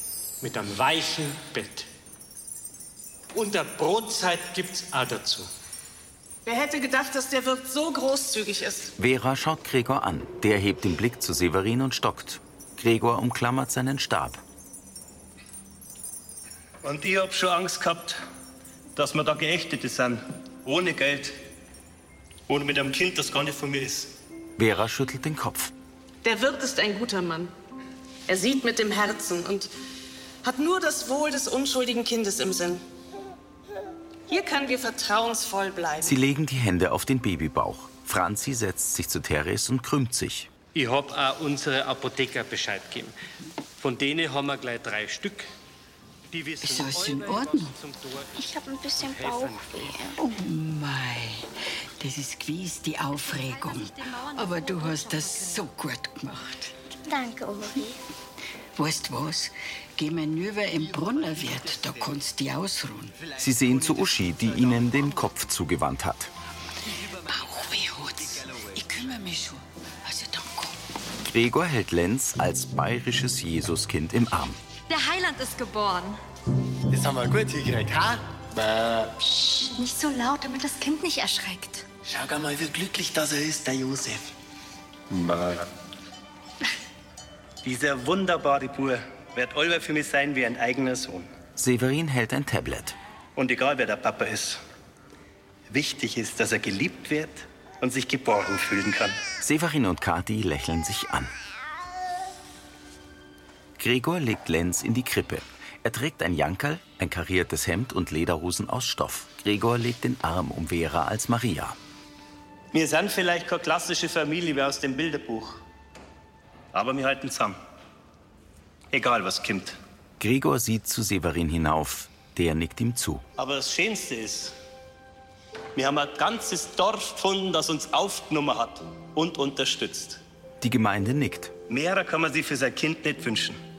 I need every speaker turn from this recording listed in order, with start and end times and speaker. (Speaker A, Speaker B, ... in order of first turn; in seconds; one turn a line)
Speaker A: 0.4-1.9
Speaker A: 3.3-5.5
Speaker B: 6.5-8.5
Speaker C: 9.0-14.4
Speaker D: 16.8-18.2
Speaker D: 18.9-21.3
Speaker D: 22.5-24.1
Speaker C: 24.6-25.7
Speaker B: 26.2-27.2
Speaker B: 28.3-29.6
Speaker B: 30.4-32.5
Speaker B: 34.3-36.0
Speaker C: 36.0-40.5
Speaker A: 40.7-43.1
Speaker A: 43.8-45.5
Speaker A: 46.3-48.3
Speaker E: 46.6-47.7
Speaker F: 48.5-50.1
Speaker A: 49.0-49.9
Speaker E: 50.1-51.5
Speaker E: 52.0-56.7
Speaker F: 57.0-58.0
Speaker E: 58.8-63.2
Speaker C: 63.4-66.3
Speaker E: 66.9-70.8
Speaker C: 71.2-74.6
Speaker G: 74.9-76.2
Speaker H: 76.9-79.2
Speaker G: 79.7-81.8
Speaker H: 82.1-84.2
Speaker D: 87.6-91.3
Speaker C: 91.5-93.0
Speaker D: 93.3-94.6
Speaker D: 95.7-99.2
Speaker C: 99.4-101.3
Speaker C: 103.8-111.8
Speaker D: 112.7-115.6
Speaker D: 116.7-117.6
Speaker D: 118.9-119.8
Speaker C: 120.2-123.2
Speaker D: 123.4-124.5
Speaker D: 125.8-130.2
Speaker C: 130.6-131.5
Speaker D: 131.7-133.6